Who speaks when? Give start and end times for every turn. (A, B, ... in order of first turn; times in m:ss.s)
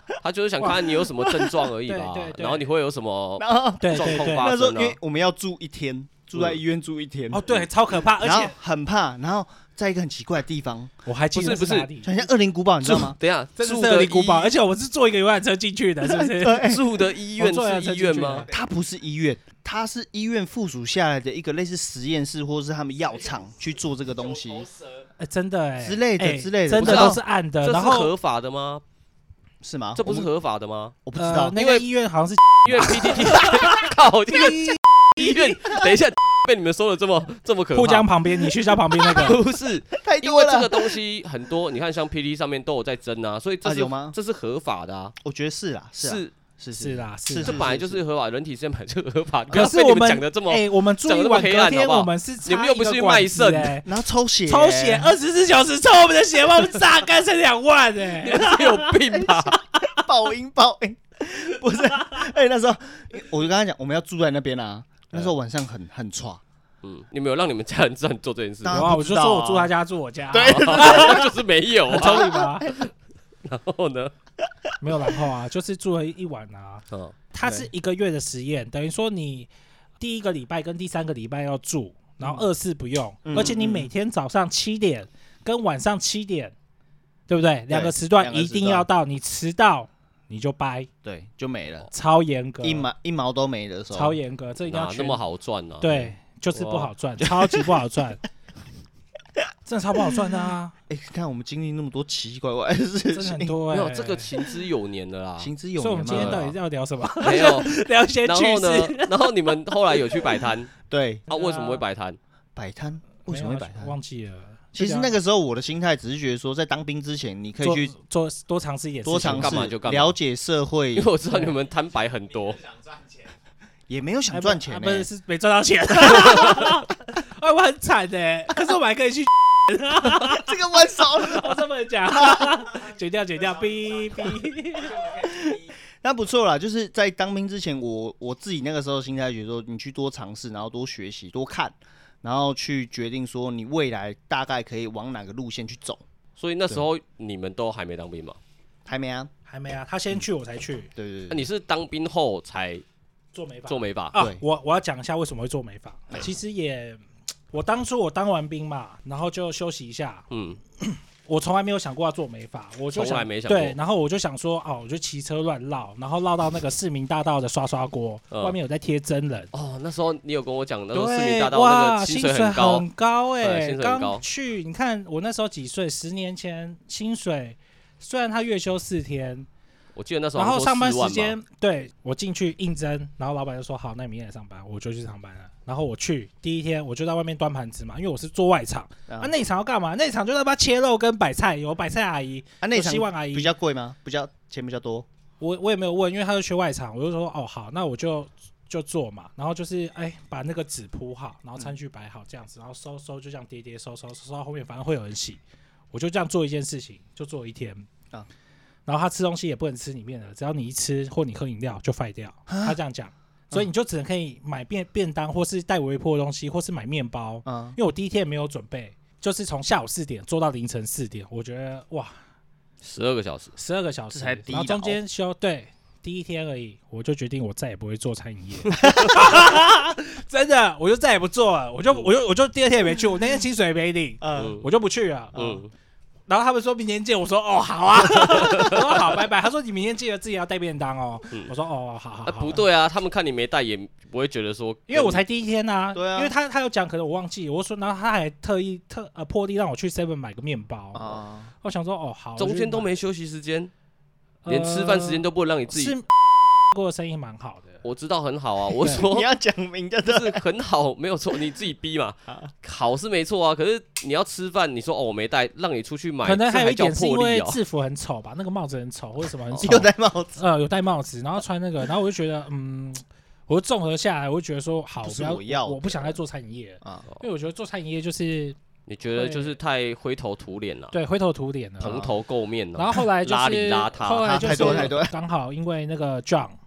0:00.2-0:05.0 A
0:00.7-0:01.6 B
0:01.9-0:02.7 C
0:03.4-0:07.6 B
0:03.8-0:04.5 C
0:07.3-0:08.6 C
0:08.2-0:10.9 B
0:11.0-0:12.1 C
0:11.3-0:11.9 A
0:12.0-0:13.2 B
0:12.8-0:14.5 A
0:13.6-0:16.8 C
0:16.0-0:16.8 B
0:16.5-0:18.4 A
0:17.4-0:18.5 C
0:18.3-0:18.7 D
0:18.5-0:24.7 B
0:23.0-0:25.1 D
0:25.2-0:28.1 C
0:25.8-0:27.2 B
0:26.7-0:28.8 A
0:29.6-0:30.3 B
0:30.0-0:31.0 A
0:31.0-0:31.6 B
0:31.2-0:35.6 C
0:31.6-0:31.8 A
0:32.6-0:38.1 A
0:37.8-0:39.4 C
0:39.0-0:45.2 A
0:40.0-0:40.9 B
0:43.6-0:44.2 B
0:45.2-0:48.0 B
0:46.0-0:46.3 A
0:46.8-0:47.6 C
0:47.4-0:53.8 A
0:49.5-0:53.9 C
0:53.8-0:55.1 B
0:54.5-0:59.0 C
0:58.2-0:59.6 A
0:59.1-1:06.4 B
1:06.8-1:08.9 A
1:08.6-1:09.7 B
1:08.7-1:11.3 C
1:10.3-1:11.3 B
1:10.4-1:12.9 A
1:11.9-1:12.7 C
1:12.0-1:12.8 B
1:13.4-1:14.1 A
1:14.8-1:26.5 C
1:16.9-1:17.2 A
1:23.2-1:23.9 B
1:27.3-1:30.9 C
1:27.7-1:28.9 B
1:31.0-1:31.9 B
1:31.9-1:32.9 C
1:32.6-1:34.2 B
1:33.9-1:35.2 C
1:34.7-1:37.7 A
1:35.8-1:38.2 C
1:39.7-1:40.7 C
1:40.9-1:43.6 B
1:43.1-1:44.3 C
1:43.7-1:45.5 A
1:45.4-1:46.5 B
1:45.8-1:49.2 C
1:46.1-1:46.5 A
1:47.2-1:50.7 A
1:49.9-1:50.3 C
1:50.9-1:51.3 B
1:51.3-1:51.8 C
1:51.3-1:52.2 A
1:52.6-1:53.9 B
1:53.3-1:55.1 C
1:54.7-1:57.9 B
1:57.6-1:59.6 C
1:59.0-2:01.1 B
1:59.2-2:00.2 A
2:01.0-2:02.6 A
2:01.3-2:01.6 C
2:01.6-2:03.4 D
2:03.9-2:05.1 B
2:04.3-2:14.9 C
2:06.3-2:06.7 B
2:10.0-2:12.5 B
2:12.5-2:15.7 D
2:15.2-2:26.0 B
2:26.4-2:28.4 A
2:28.9-2:29.3 B
2:29.5-2:30.9 C
2:31.0-2:31.4 B
2:31.3-2:32.8 A
2:33.3-2:49.5 C
2:33.7-2:34.2 A
2:34.2-2:34.4 B
2:40.3-2:40.6 A
2:42.9-2:43.8 A
2:49.5-2:52.9 A
2:50.9-2:59.5 C
2:53.4-2:54.2 A
3:00.0-3:01.4 A
3:00.4-3:13.5 C
3:09.1-3:09.4 B
3:12.6-3:15.1 B
3:15.4-3:25.4 C
3:25.9-3:27.9 C
3:28.9-3:42.2 C
3:32.5-3:32.8 B
3:37.4-3:37.8 B
3:42.8-3:43.5 A
3:43.6-3:55.6 C
3:44.1-3:45.0 B
3:54.2-3:54.6 B
3:54.4-3:54.7 A
3:55.4-3:55.7 A
3:56.3-4:02.6 C
3:58.4-3:58.8 A
4:02.3-4:05.2 A
4:04.9-4:12.9 C
4:05.9-4:06.3 B
4:10.9-4:11.5 B
4:12.4-4:13.7 A
4:14.4-4:17.8 C
4:14.5-4:16.0 A
4:17.8-4:19.3 A
4:18.8-4:20.4 B
4:20.1-4:27.6 A
4:26.2-4:38.6 C
4:29.5-4:30.4 B
4:35.0-4:36.1 B
4:38.9-4:41.0 A
4:39.1-4:39.6 C
4:40.9-4:42.0 C
4:41.8-4:45.0 A
4:41.8-4:42.1 B
4:42.8-4:46.6 C
4:44.2-4:45.1 B